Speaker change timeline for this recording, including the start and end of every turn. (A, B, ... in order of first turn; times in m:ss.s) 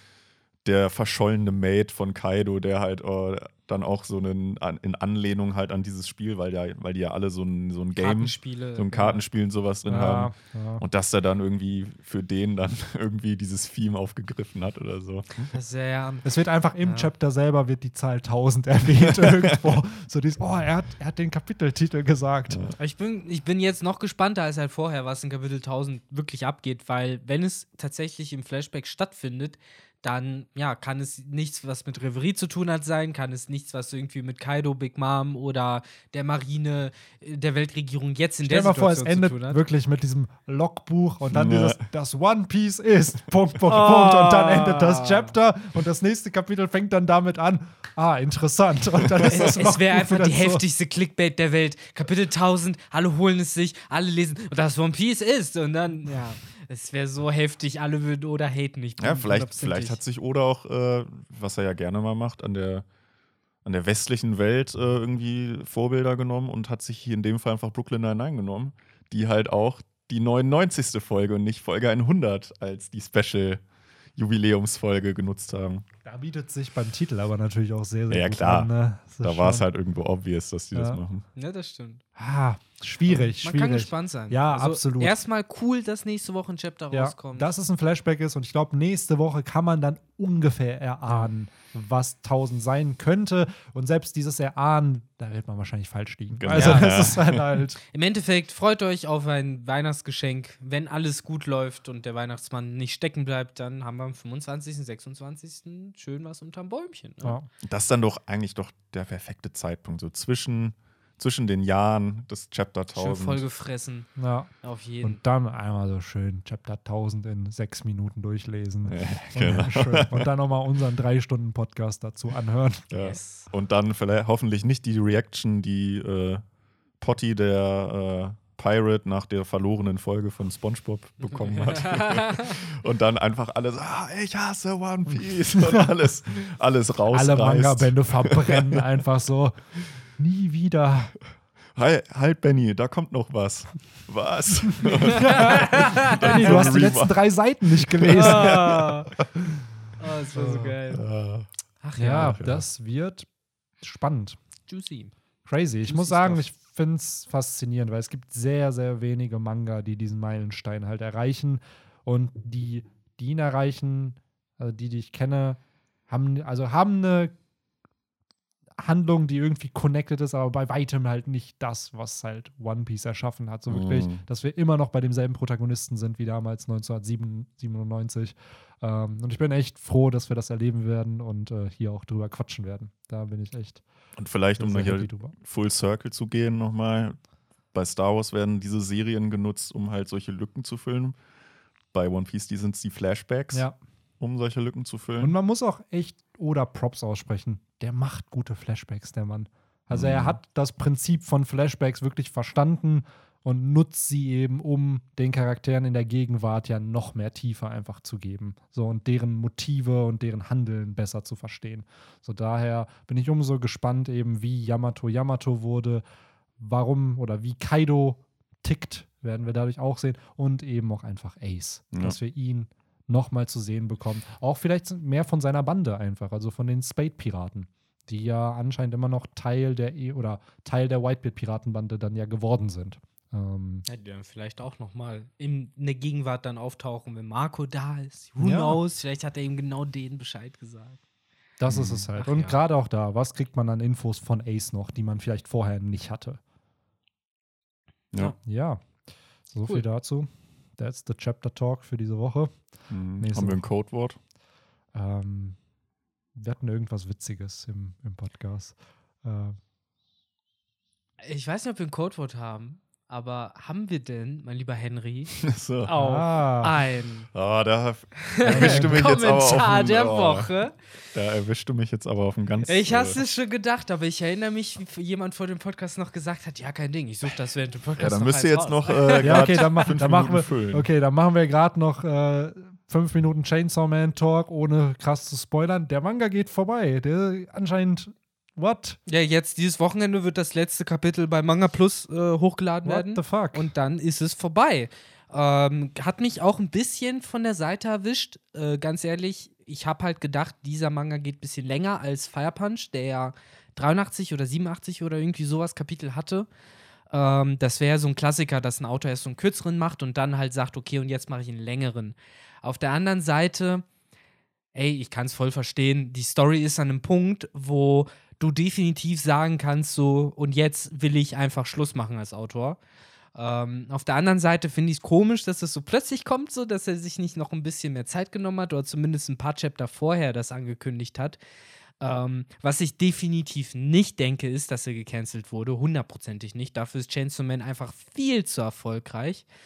0:00.6-0:15.5 A
0:08.0-0:09.2 B
0:09.8-0:10.8 C
0:15.5-0:16.3 B
0:16.2-0:22.6 C
0:16.8-0:17.1 B
0:22.5-0:22.7 A
0:22.8-0:39.6 B
0:38.4-0:50.6 C
0:41.3-0:41.8 A
0:43.7-0:45.3 B
0:49.2-1:00.0 B
0:59.0-1:02.8 A
1:03.6-1:13.6 A
1:14.2-1:15.8 A
1:16.0-1:19.6 C
1:18.1-1:18.7 A
1:19.2-1:21.2 A
1:20.7-1:21.0 C
1:21.4-1:22.0 B
1:22.2-1:25.2 C
1:23.1-1:27.5 B
1:26.9-1:37.8 C
1:36.3-1:37.6 A
1:36.5-1:36.9 B
1:37.9-1:47.4 B
1:47.2-1:47.5 C
1:47.6-1:53.4 A
1:52.9-1:54.1 B
1:54.2-1:54.5 C
1:54.6-1:55.2 B
1:55.0-2:02.9 C
1:58.8-2:00.3 A
2:02.9-2:06.4 A
2:03.0-2:03.5 B
2:07.0-2:18.8 A
2:11.2-2:12.5 B
2:15.5-2:15.9 C
2:17.1-2:21.1 C
2:21.8-2:29.2 A
2:25.1-2:26.4 B
2:25.1-2:28.8 C
2:28.1-2:29.1 B
2:30.0-2:31.0 B
2:30.3-2:30.8 C
2:30.9-2:31.5 A
2:31.8-2:32.4 B
2:32.0-2:33.3 C
2:32.0-2:32.6 A
2:33.8-2:34.4 C
2:34.7-2:35.1 B
2:35.4-2:47.3 C
2:35.8-2:36.4 B
2:48.8-3:03.8 C
2:53.7-2:54.2 A
3:04.2-3:07.2 A
3:04.6-3:05.3 C
3:07.7-3:11.2 A
3:11.9-3:13.6 A
3:14.2-3:15.4 A
3:15.2-3:36.0 C
3:19.9-3:20.4 A
3:36.6-3:53.8 C
3:41.9-3:42.2 A
3:53.9-4:01.0 B
3:58.4-3:58.8 C
4:01.6-4:06.4 C
4:01.7-4:02.1 A
4:02.1-4:02.6 B
4:08.4-4:08.8 C
4:09.5-4:12.6 C
4:12.9-4:14.2 A
4:13.2-4:13.6 C
4:14.9-4:15.6 C
4:16.3-4:19.6 C
4:21.2-4:27.3 B
4:25.4-4:25.9 A
4:25.9-4:26.7 C
4:27.3-4:30.5 A
4:28.3-4:30.8 B
4:28.4-4:29.2 C
4:31.1-4:33.2 A
4:32.7-4:39.8 B
4:38.0-4:40.8 A
4:39.2-4:49.0 C
4:49.0-5:06.5 B
4:52.8-4:53.7 C
5:07.1-5:13.8 B
5:14.7-5:22.8 B
5:23.3-5:31.4 B
5:32.0-5:39.4 B